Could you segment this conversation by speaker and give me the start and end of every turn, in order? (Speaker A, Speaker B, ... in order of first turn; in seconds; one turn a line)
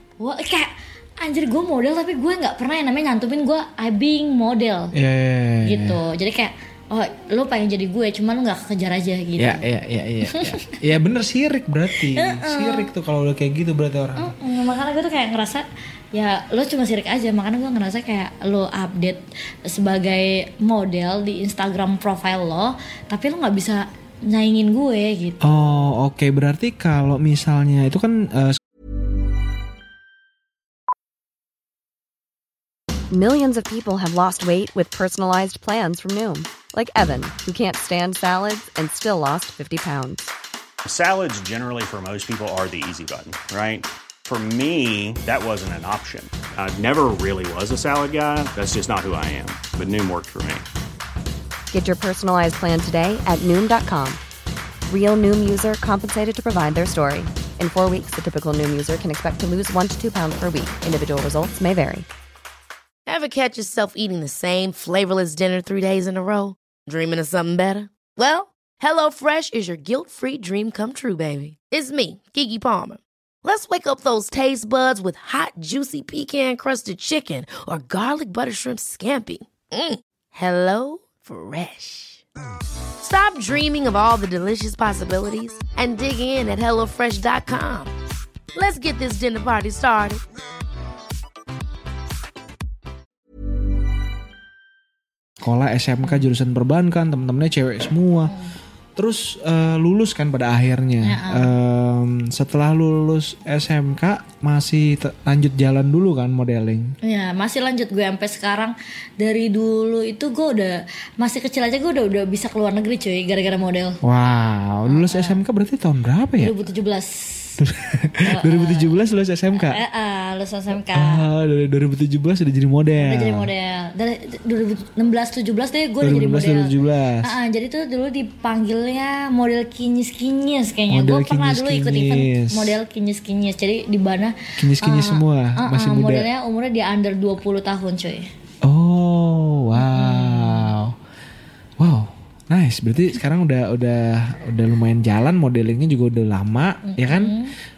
Speaker A: 0.2-4.9
Speaker B: 4.9-6.0
Speaker A: 5.6-9.7
Speaker B: 9.4-14.3
Speaker A: 10.3-10.7
Speaker A: 12.0-12.9
Speaker A: 14.2-25.5
Speaker B: 25.4-28.6
Speaker C: 33.1-40.3
Speaker D: 40.8-50.6
Speaker C: 51.7-54.2
Speaker C: 54.9-62.1
Speaker E: 63.0-82.2
Speaker E: 83.0-87.9
Speaker E: 88.5-90.2
Speaker B: 95.4-98.3
Speaker B: 99.0-106.9
Speaker A: 101.0-101.5
Speaker A: 107.0-114.0
Speaker B: 114.0-116.5
Speaker A: 114.8-115.4
Speaker A: 116.4-117.6
Speaker B: 117.6-119.8
Speaker A: 118.2-119.0
Speaker A: 119.5-121.2
Speaker B: 120.9-123.5
Speaker A: 123.0-138.3
Speaker B: 126.0-127.3
Speaker B: 130.9-132.8
Speaker B: 134.6-136.3
Speaker B: 138.6-140.9
Speaker A: 139.7-140.7
Speaker B: 141.8-147.4
Speaker A: 146.8-147.5